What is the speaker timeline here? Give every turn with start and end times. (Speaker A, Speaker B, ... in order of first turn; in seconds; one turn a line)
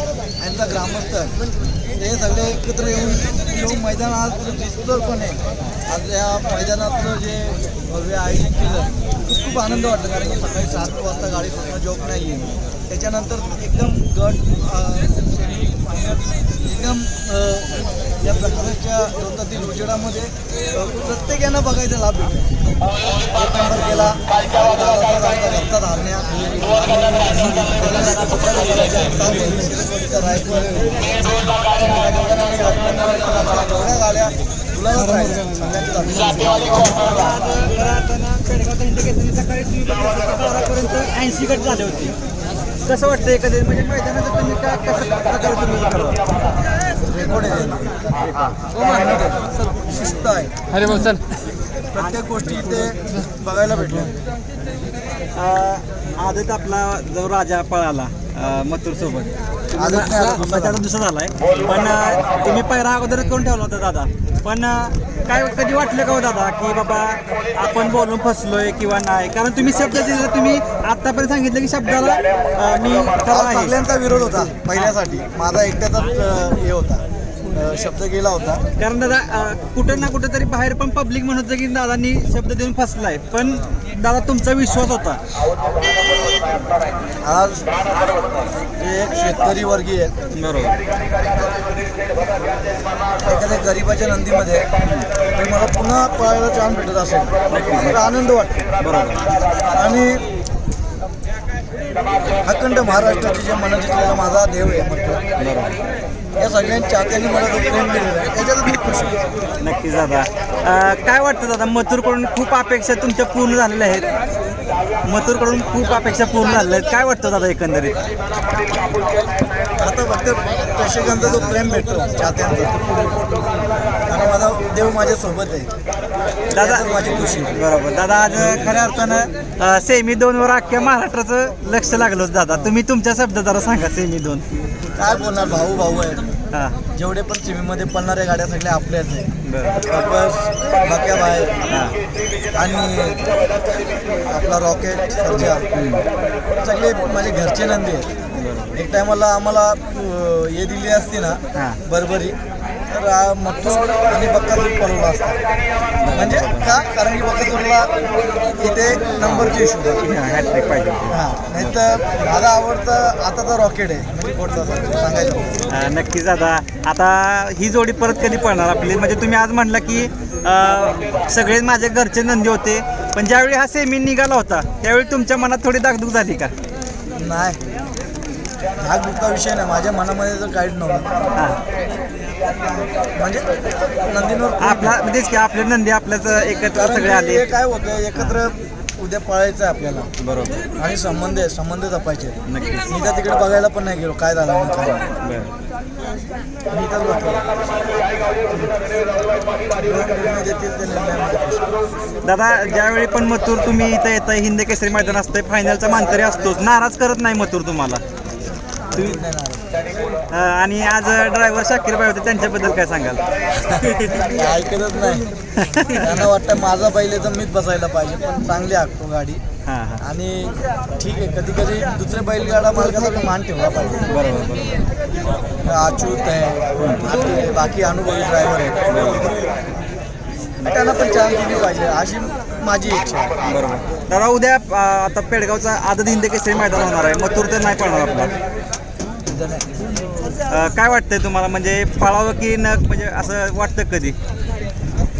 Speaker A: 0.4-1.4
Speaker A: 1.9-22.6
Speaker A: 23.3-31.1
Speaker A: 31.7-37.2
Speaker B: 37.0-42.1
Speaker B: 42.8-46.2
Speaker A: 47.0-48.1
Speaker A: 48.6-51.1
Speaker A: 51.9-54.2
Speaker B: 55.3-73.8
Speaker A: 59.8-60.8
Speaker A: 73.3-78.6
Speaker B: 78.8-85.2
Speaker A: 87.2-87.8
Speaker A: 88.8-90.2
Speaker B: 90.3-90.8
Speaker A: 93.2-94.7
Speaker A: 95.3-98.7
Speaker B: 97.5-98.1
Speaker B: 98.8-99.3
Speaker A: 99.7-100.2
Speaker A: 102.4-105.2
Speaker B: 105.4-105.8
Speaker A: 106.4-109.2
Speaker B: 109.6-114.0
Speaker B: 115.0-118.0
Speaker A: 119.8-123.0
Speaker A: 124.1-125.7
Speaker A: 126.5-127.6
Speaker B: 126.5-134.4
Speaker A: 135.0-136.3
Speaker B: 136.5-136.8
Speaker A: 136.9-139.3
Speaker B: 139.4-139.8
Speaker A: 139.8-141.7
Speaker B: 141.7-141.9
Speaker A: 142.5-143.3
Speaker A: 144.1-145.7
Speaker B: 145.4-146.0
Speaker A: 146.6-148.1
Speaker B: 148.3-148.8
Speaker A: 148.7-152.4
Speaker B: 151.5-151.8
Speaker A: 152.9-155.4
Speaker B: 156.0-156.8
Speaker A: 156.1-157.9
Speaker A: 158.6-160.0
Speaker B: 159.2-162.0
Speaker A: 161.1-165.7
Speaker B: 165.7-176.5
Speaker A: 177.1-177.6
Speaker A: 178.8-181.2
Speaker B: 181.3-181.6
Speaker A: 183.1-183.5
Speaker A: 184.0-184.9
Speaker B: 184.6-187.5
Speaker A: 186.7-190.1
Speaker B: 190.2-190.6
Speaker A: 190.8-192.4
Speaker B: 192.4-192.9
Speaker A: 192.9-195.1
Speaker B: 195.2-195.5
Speaker A: 196.7-197.4
Speaker A: 199.8-201.7
Speaker B: 202.2-208.0
Speaker A: 208.9-209.6
Speaker B: 208.9-209.2
Speaker B: 210.3-214.2
Speaker A: 214.1-215.3
Speaker B: 215.5-216.2
Speaker A: 215.9-219.4
Speaker B: 219.7-220.0
Speaker A: 220.0-224.1
Speaker B: 224.1-224.9
Speaker A: 225.6-228.9
Speaker B: 226.8-227.1
Speaker B: 228.9-229.3
Speaker A: 230.6-233.4
Speaker B: 233.4-238.3
Speaker A: 239.3-239.7
Speaker B: 240.4-244.2